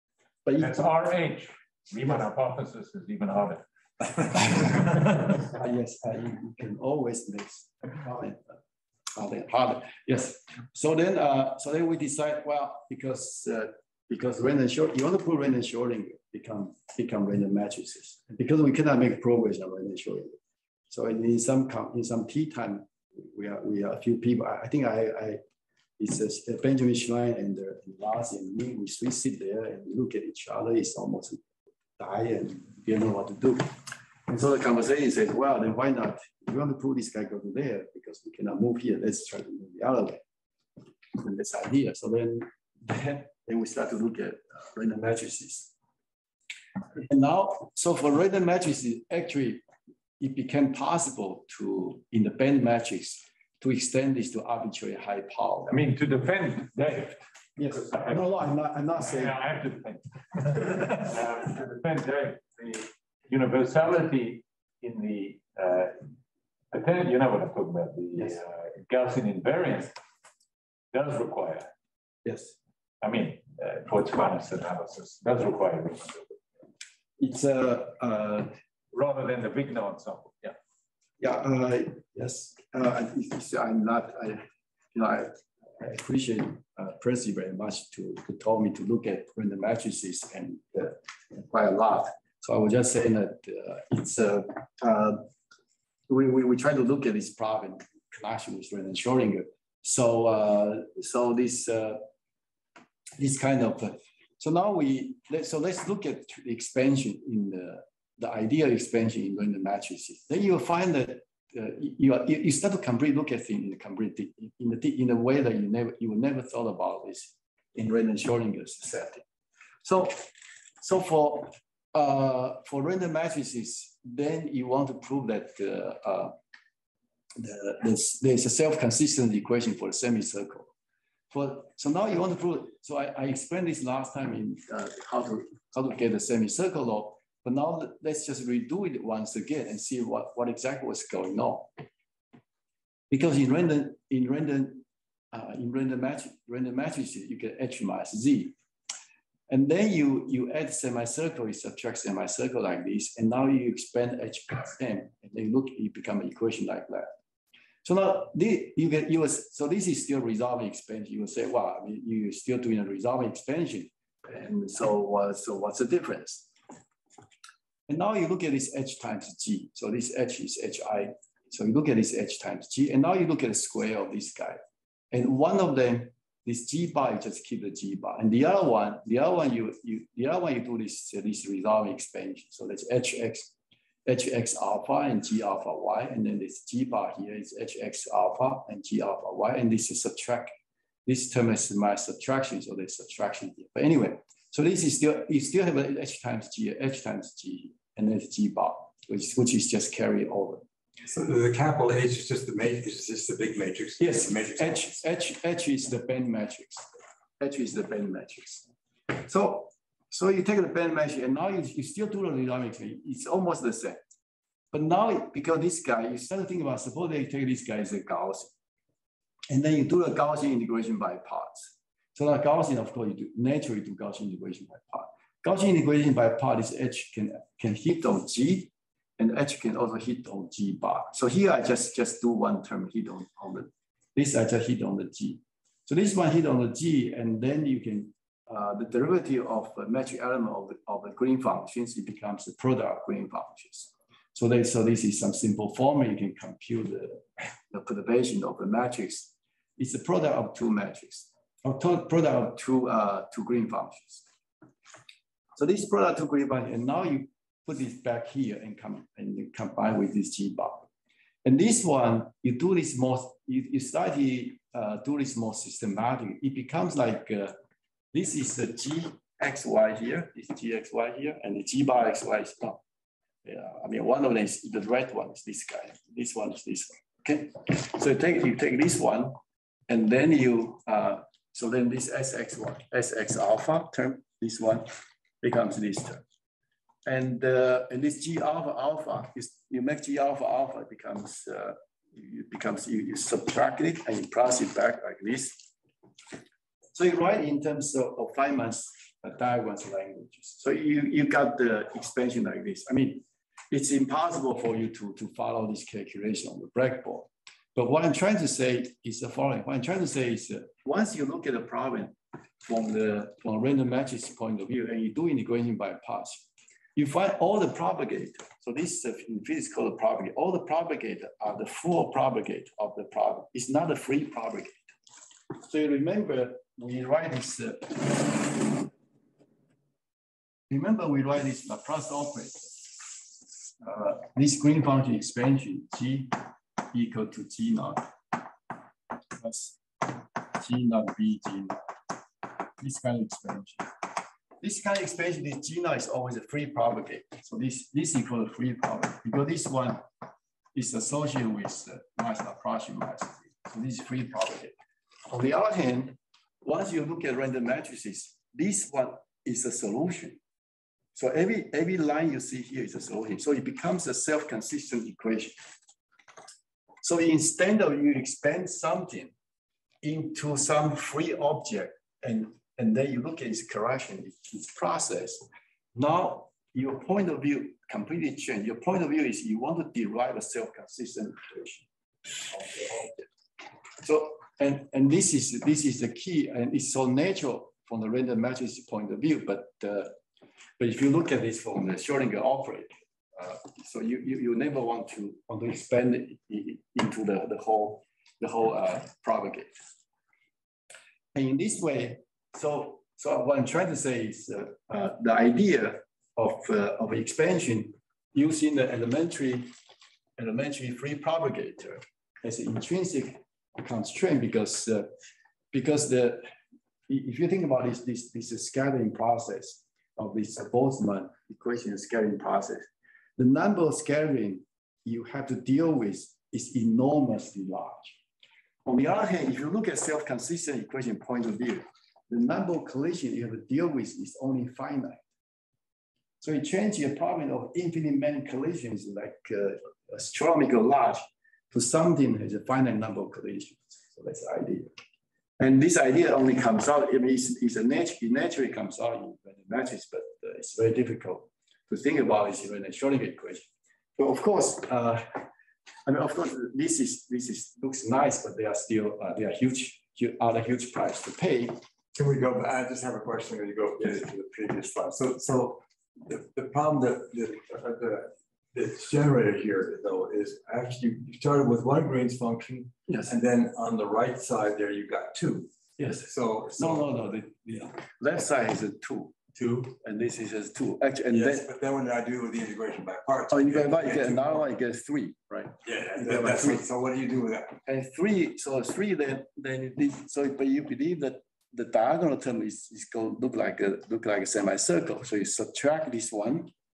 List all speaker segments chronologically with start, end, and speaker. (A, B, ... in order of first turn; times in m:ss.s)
0:00.5-0:00.8 A
0:00.6-0:05.4 B
0:05.5-0:08.4 A
0:09.2-0:20.4 A
0:20.9-0:25.4 A
0:26.0-0:31.5 A
0:32.0-0:33.8 A
0:34.3-0:40.2 A
0:41.1-0:45.7 A
0:47.0-0:49.6 A
0:50.2-0:55.8 A
0:55.7-0:58.3 B
0:57.6-0:59.4 A
0:59.0-1:06.1 B
1:06.7-1:09.9 B
1:10.9-1:11.7 B
1:12.2-1:12.6 A
1:13.0-1:16.4 B
1:17.2-1:18.5 A
1:18.9-1:20.6 B
1:21.2-1:35.3 A
1:36.1-1:42.0 A
1:43.2-1:59.2 A
1:59.8-2:06.4 A
2:07.4-2:10.7 A
2:11.3-2:21.7 A
2:23.1-2:28.6 A
2:29.5-2:37.1 A
2:37.8-2:46.5 A
2:47.9-2:54.6 A
2:55.1-3:03.5 A
3:04.1-3:10.5 A
3:11.1-3:20.6 A
3:21.0-3:25.0 C
3:24.0-3:26.9 A
3:27.4-3:34.0 A
3:34.7-3:38.5 A
3:39.5-4:14.2 A
4:15.6-4:20.9 A
4:21.4-4:27.6 A
4:28.1-4:32.8 A
4:33.4-4:39.4 A
4:39.9-4:46.2 A
4:47.1-4:55.7 A
4:56.9-5:24.9 A
5:25.5-5:28.9 A
5:30.7-5:38.4 A
5:39.4-5:41.8 A
5:42.8-5:44.0 A
5:44.6-5:50.0 A
5:50.7-5:54.8 A
5:55.3-6:00.4 A
6:01.2-6:05.6 A
6:07.0-6:09.3 A
6:10.0-6:21.9 A
6:22.4-6:23.3 A
6:24.0-6:30.2 A
6:30.8-6:39.8 A
6:41.3-6:49.7 A
6:50.4-6:55.1 A
6:55.7-6:56.5 A
6:57.1-7:02.9 A
7:03.4-7:08.2 A
7:08.8-7:15.2 A
7:16.4-7:24.9 A
7:25.6-7:35.5 A
7:36.1-7:41.8 A
7:42.2-7:57.3 C
7:53.1-7:53.3 A
7:56.0-8:01.7 A
7:59.6-7:59.9 C
8:01.3-8:04.7 C
8:03.5-8:06.9 A
8:05.8-8:07.8 C
8:07.8-8:16.7 A